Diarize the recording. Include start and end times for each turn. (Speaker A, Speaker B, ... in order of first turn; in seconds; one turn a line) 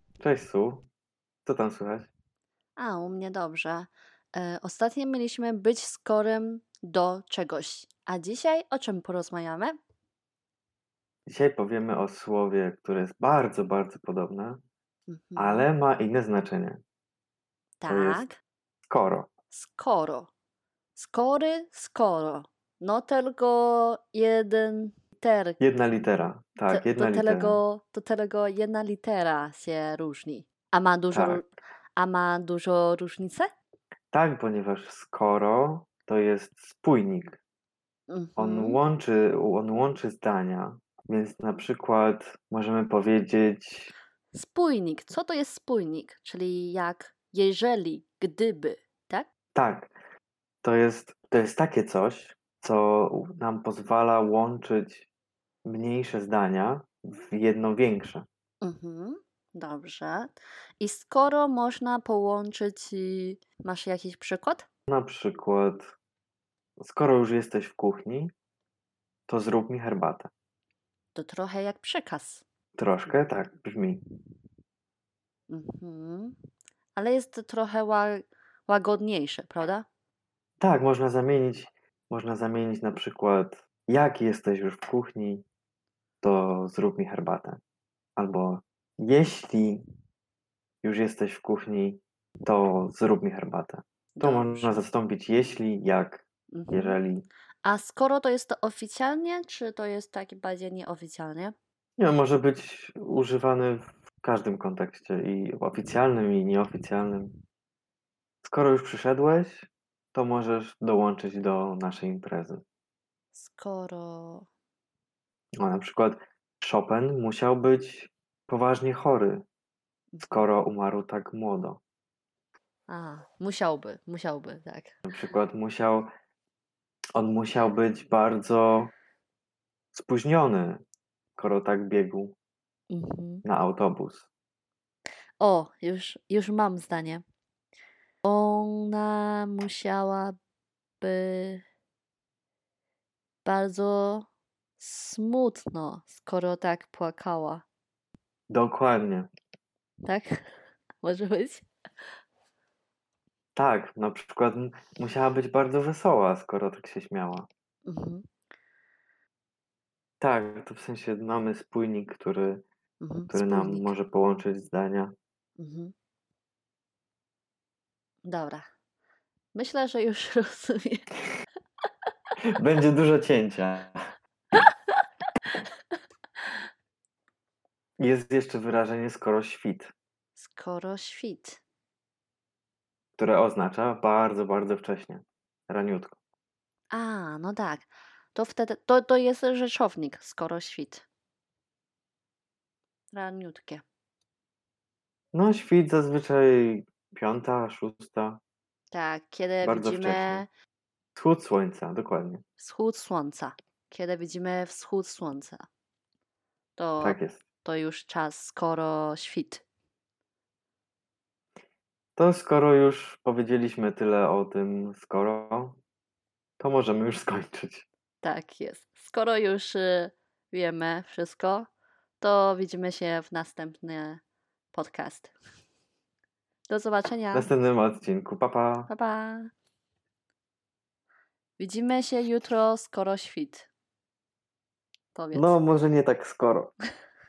Speaker A: 0.2-0.9
Speaker A: 1.4-2.1
Speaker B: 2.8-9.8
Speaker A: 11.3-14.6
Speaker B: 15.1-15.7
Speaker A: 15.4-16.8
Speaker B: 17.8-18.4
Speaker A: 17.9-18.3
Speaker A: 18.9-19.3
Speaker B: 19.5-20.3
Speaker B: 21.0-25.6
Speaker A: 25.6-27.6
Speaker B: 26.7-33.5
Speaker A: 31.1-31.4
Speaker A: 34.1-37.4
Speaker B: 38.1-38.8
Speaker A: 38.4-43.9
Speaker B: 44.3-49.3
Speaker A: 49.5-49.9
Speaker A: 50.6-55.1
Speaker A: 55.6-58.3
Speaker B: 58.6-64.7
Speaker A: 64.9-66.0
Speaker A: 66.8-68.3
Speaker A: 69.3-70.3
Speaker B: 71.2-72.4
Speaker A: 72.8-74.0
Speaker B: 75.5-76.4
Speaker B: 77.0-79.9
Speaker A: 80.6-85.5
Speaker A: 86.2-87.6
Speaker A: 88.2-89.8
Speaker A: 90.8-97.3
Speaker B: 94.2-94.8
Speaker B: 96.5-97.0
Speaker B: 97.7-101.5
Speaker A: 102.0-107.3
Speaker A: 108.4-112.6
Speaker B: 113.3-114.5
Speaker A: 115.6-119.5
Speaker B: 120.1-120.4
Speaker A: 120.2-121.8
Speaker B: 122.9-124.9
Speaker A: 125.0-126.1
Speaker A: 127.2-128.9
Speaker A: 129.9-130.8
Speaker A: 131.4-132.4
Speaker B: 132.9-133.4
Speaker A: 133.4-134.3
Speaker B: 135.4-137.2
Speaker B: 138.2-140.4
Speaker B: 141.0-141.6
Speaker B: 143.4-144.3
Speaker B: 144.8-147.7
Speaker A: 148.5-149.3
Speaker B: 150.1-150.5
Speaker B: 151.0-151.7
Speaker A: 153.6-157.5
Speaker B: 157.8-158.2
Speaker A: 160.2-162.7
Speaker B: 163.0-164.0
Speaker A: 163.3-165.1
Speaker B: 165.6-165.9
Speaker B: 168.2-168.7
Speaker B: 169.5-171.1
Speaker A: 172.6-174.0
Speaker A: 178.0-179.9
Speaker B: 180.4-181.6
Speaker A: 183.2-186.2
Speaker B: 186.9-191.1
Speaker B: 193.1-193.8
Speaker A: 195.3-198.4
Speaker B: 198.9-200.5
Speaker A: 199.6-200.4
Speaker A: 201.2-202.4
Speaker B: 202.6-205.7
Speaker B: 206.8-209.7
Speaker A: 207.0-207.4
Speaker A: 212.2-215.8
Speaker A: 216.6-217.9
Speaker B: 218.2-224.2
Speaker B: 224.7-225.3
Speaker B: 226.7-227.5
Speaker A: 227.3-228.9
Speaker B: 228.9-229.5
Speaker B: 231.6-233.7
Speaker B: 235.2-235.6
Speaker A: 235.3-236.7